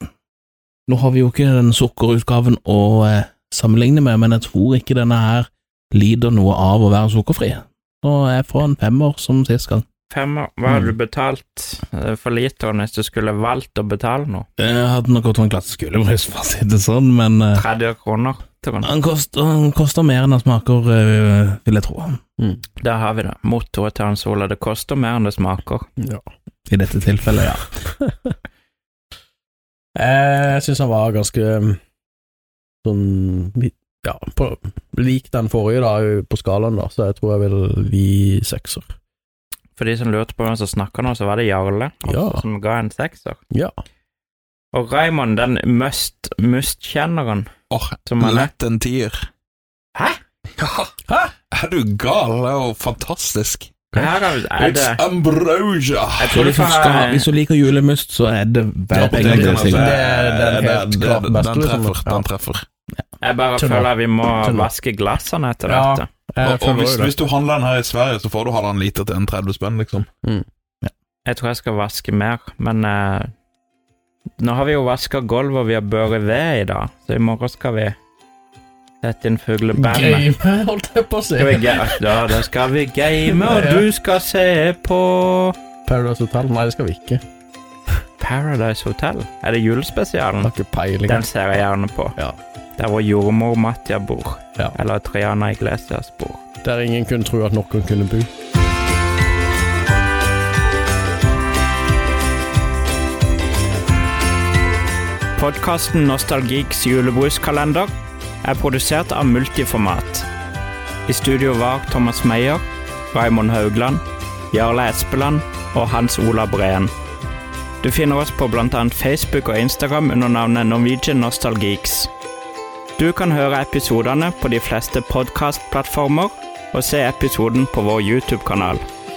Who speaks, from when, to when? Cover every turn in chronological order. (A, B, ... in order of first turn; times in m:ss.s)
0:00.9-0:09.8 A
0:10.1-0:14.5 B
0:10.7-0:10.9 A
0:14.6-0:17.6 A
0:17.5-0:18.9 B
0:18.8-0:22.2 A
0:22.8-0:25.9 B
0:26.7-0:27.6 A
0:30.0-0:31.8 C
0:32.8-0:38.9 C
0:39.8-0:43.4 B
0:42.0-0:42.4 C
0:44.7-0:47.5 B
0:47.7-0:49.2 D
0:48.0-0:48.5 B
0:50.6-0:50.9 D
0:51.1-0:51.3 C
0:51.5-0:53.7 D
0:53.9-0:55.0 B
0:54.6-0:56.4 D
0:56.2-0:57.3 B
0:56.3-0:59.9 A
0:58.9-1:02.3 C
0:58.9-1:02.6 D
1:03.2-1:06.1 B
1:03.6-1:04.7 C
1:05.7-1:07.2 C
1:06.4-1:10.1 D
1:11.2-1:13.3 B
1:14.4-1:18.0 B
1:19.0-1:20.3 B
1:19.8-1:22.0 C
1:21.4-1:25.6 B
1:23.3-1:23.9 C
1:25.9-1:27.2 C
1:28.2-1:30.5 B
1:30.4-1:31.2 C
1:31.1-1:32.2 B
1:32.8-1:36.4 B
1:36.6-1:38.3 C
1:45.4-1:47.9 B
1:48.4-1:50.3 B
1:51.1-1:56.9 B
1:57.8-2:02.1 B
2:03.0-2:08.8 B